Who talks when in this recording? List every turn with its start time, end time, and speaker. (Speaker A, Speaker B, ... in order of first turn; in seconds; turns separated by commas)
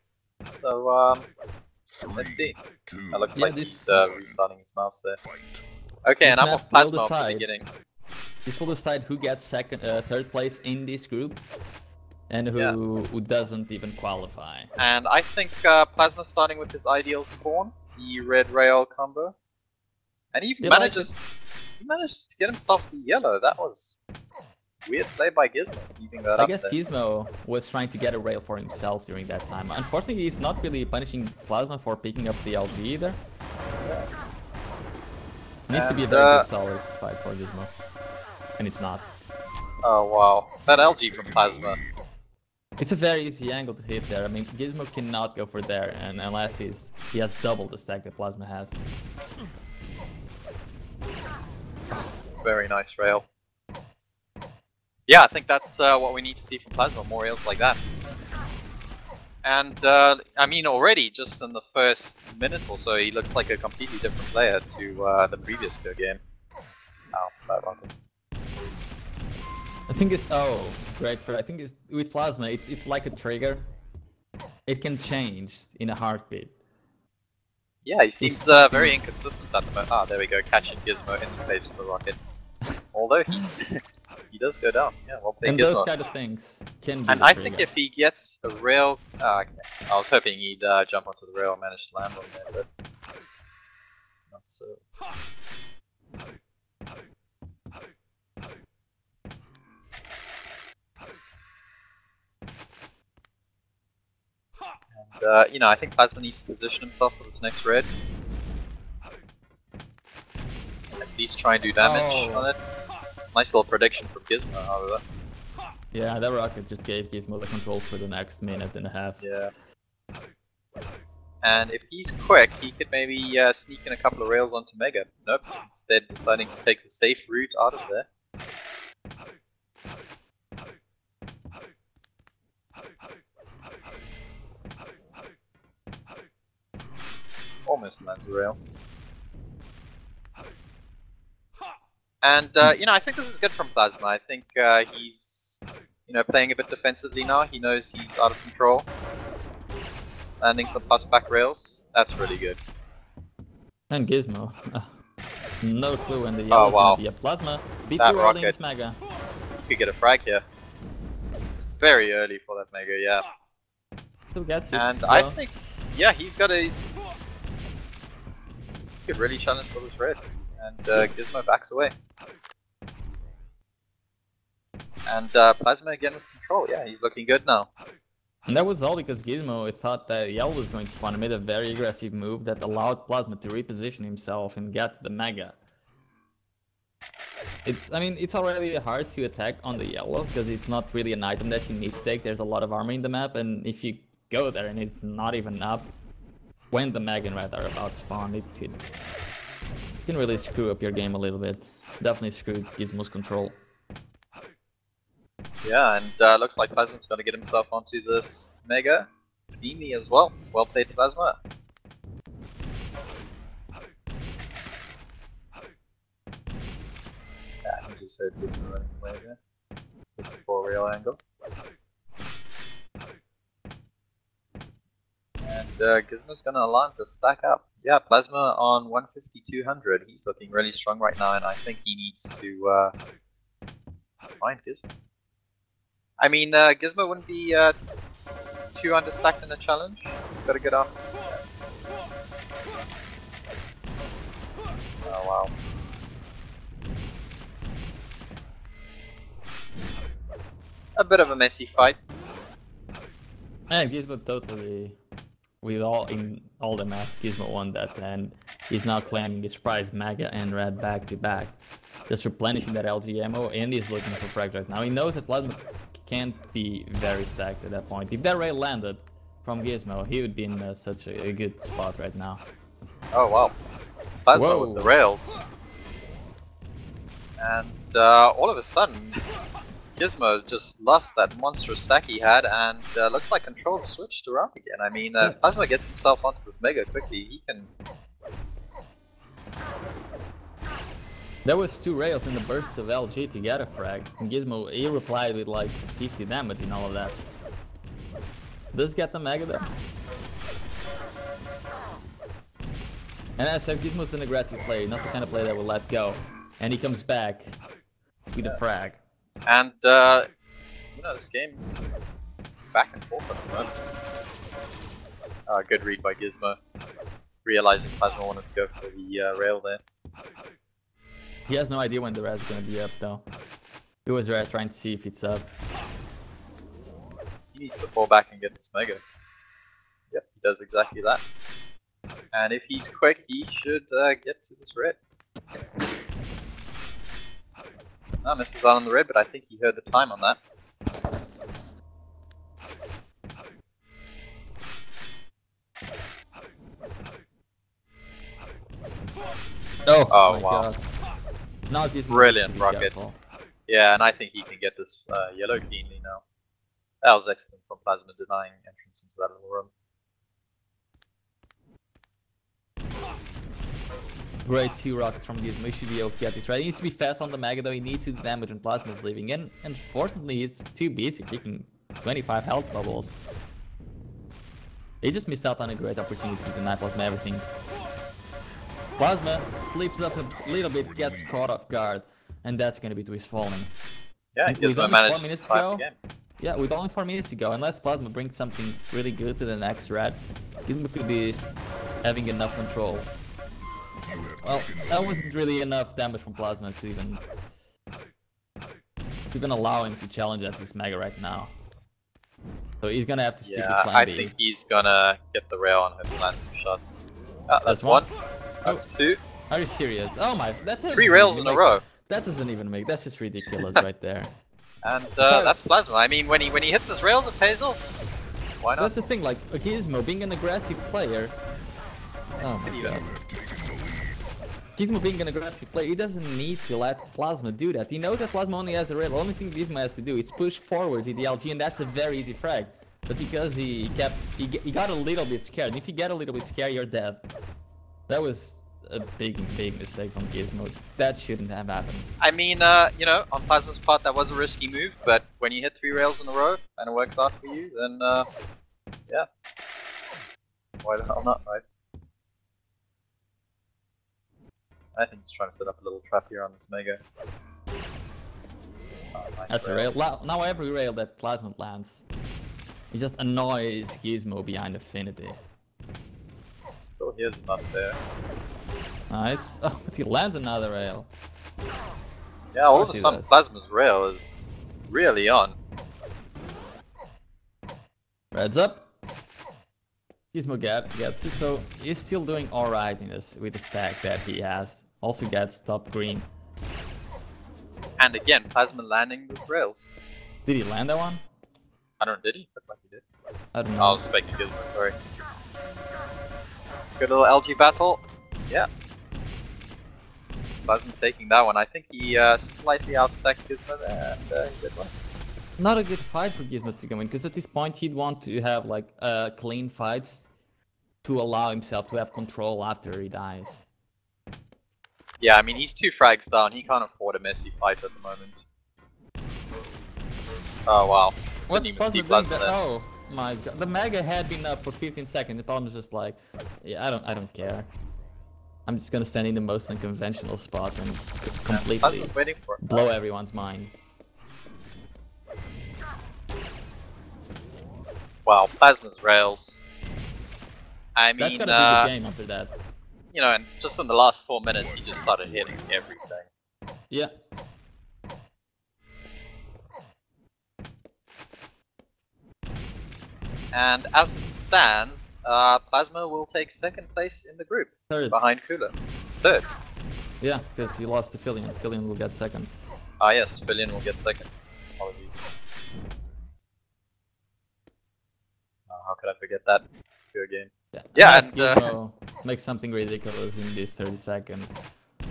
Speaker A: 0.5-1.3, Speaker A: 2.1-5.2, Speaker B: 3.4-4.0, Speaker A: 6.0-7.7, Speaker B: 6.2-7.5, Speaker B: 8.4-11.4, Speaker B: 12.3-14.7, Speaker A: 14.8-19.3, Speaker A: 20.3-21.2, Speaker B: 20.6-21.1, Speaker A: 21.8-24.0, Speaker A: 24.8-26.8, Speaker B: 26.4-33.2, Speaker B: 35.7-37.7, Speaker A: 35.7-36.5, Speaker B: 38.6-39.0, Speaker A: 39.8-41.8, Speaker B: 42.8-48.8, Speaker A: 52.4-53.2, Speaker A: 55.1-57.8, Speaker A: 59.4-66.2, Speaker A: 67.1-67.9, Speaker B: 69.9-73.6, Speaker B: 74.7-76.5, Speaker A: 77.8-82.2, Speaker B: 78.2-79.0, Speaker A: 82.9-85.9, Speaker B: 85.4-87.7, Speaker A: 87.1-92.7, Speaker A: 94.3-94.8, Speaker A: 104.9-107.9, Speaker A: 111.0-112.6, Speaker B: 111.8-112.5, Speaker A: 113.3-115.0, Speaker B: 115.9-119.2, Speaker A: 119.2-119.5, Speaker A: 121.4-128.1, Speaker A: 137.6-138.6, Speaker A: 142.2-148.9, Speaker A: 150.4-152.6, Speaker B: 153.9-154.9, Speaker B: 155.6-159.0, Speaker A: 156.5-157.0, Speaker A: 158.0-158.5, Speaker A: 159.6-160.4, Speaker A: 161.8-163.2, Speaker B: 164.3-165.4, Speaker A: 164.7-166.9, Speaker A: 169.1-171.9, Speaker A: 175.1-177.7, Speaker B: 178.5-185.6, Speaker B: 187.6-195.9, Speaker B: 196.7-198.9, Speaker B: 200.1-203.6, Speaker A: 205.6-211.4, Speaker A: 217.6-219.4, Speaker A: 220.2-221.2, Speaker A: 225.4-232.9, Speaker A: 234.4-234.9, Speaker A: 236.2-237.7, Speaker A: 238.7-241.4, Speaker A: 245.0-245.5, Speaker A: 251.0-252.0, Speaker B: 253.7-255.0, Speaker B: 255.6-261.6, Speaker B: 262.1-272.4, Speaker A: 273.1-273.6, Speaker A: 274.2-275.4, Speaker B: 274.3-274.9, Speaker A: 277.4-279.2, Speaker A: 279.9-287.7, Speaker B: 291.4-297.2, Speaker B: 298.7-299.7, Speaker B: 303.4-307.6, Speaker B: 308.3-309.0, Speaker A: 309.5-310.3, Speaker A: 310.9-312.0, Speaker A: 312.7-313.8, Speaker A: 315.5-316.6, Speaker A: 317.4-319.8, Speaker B: 321.5-323.2, Speaker B: 324.1-325.6, Speaker A: 327.5-329.0, Speaker A: 330.1-331.2, Speaker A: 332.3-335.0, Speaker A: 338.2-340.4, Speaker B: 349.9-350.8, Speaker A: 350.1-350.7, Speaker B: 351.7-353.2, Speaker A: 352.1-352.9, Speaker A: 353.7-356.2, Speaker A: 357.0-359.7, Speaker B: 364.4-373.2, Speaker B: 375.0-377.5, Speaker B: 379.0-383.7, Speaker A: 384.4-386.0, Speaker B: 384.5-385.9, Speaker B: 386.4-391.5, Speaker B: 392.0-393.1, Speaker B: 394.4-397.2, Speaker B: 399.3-401.6, Speaker B: 402.8-404.3, Speaker A: 403.4-408.1, Speaker B: 407.7-408.1, Speaker A: 408.6-409.2, Speaker B: 409.5-414.3, Speaker A: 410.9-411.9, Speaker A: 414.8-417.8, Speaker B: 415.2-415.5, Speaker A: 418.6-418.9, Speaker B: 418.8-421.4, Speaker B: 422.4-423.1, Speaker A: 422.7-423.1, Speaker B: 424.8-437.2, Speaker B: 438.1-442.1, Speaker A: 442.2-448.3, Speaker A: 450.8-451.6, Speaker A: 454.9-457.0, Speaker A: 459.1-459.9, Speaker B: 459.5-462.1, Speaker B: 462.9-465.4, Speaker A: 466.8-468.0, Speaker B: 469.1-471.1, Speaker A: 472.5-475.6, Speaker B: 472.7-473.3, Speaker B: 478.3-478.9, Speaker B: 480.3-486.3, Speaker A: 488.0-489.9, Speaker B: 490.5-491.2, Speaker A: 492.0-493.0, Speaker B: 493.5-494.0, Speaker A: 493.8-495.0, Speaker A: 497.0-498.7, Speaker A: 500.7-504.9, Speaker B: 505.6-510.3, Speaker B: 511.0-513.6, Speaker A: 515.2-518.4, Speaker A: 520.7-522.5, Speaker B: 521.5-527.7, Speaker B: 528.6-533.7, Speaker A: 531.5-532.9, Speaker A: 538.2-539.6, Speaker A: 541.0-541.9, Speaker B: 541.2-542.5, Speaker A: 543.1-546.3, Speaker A: 553.5-559.5, Speaker B: 557.9-558.2, Speaker B: 560.2-562.5, Speaker A: 563.0-565.3, Speaker A: 568.7-571.8, Speaker B: 570.8-574.6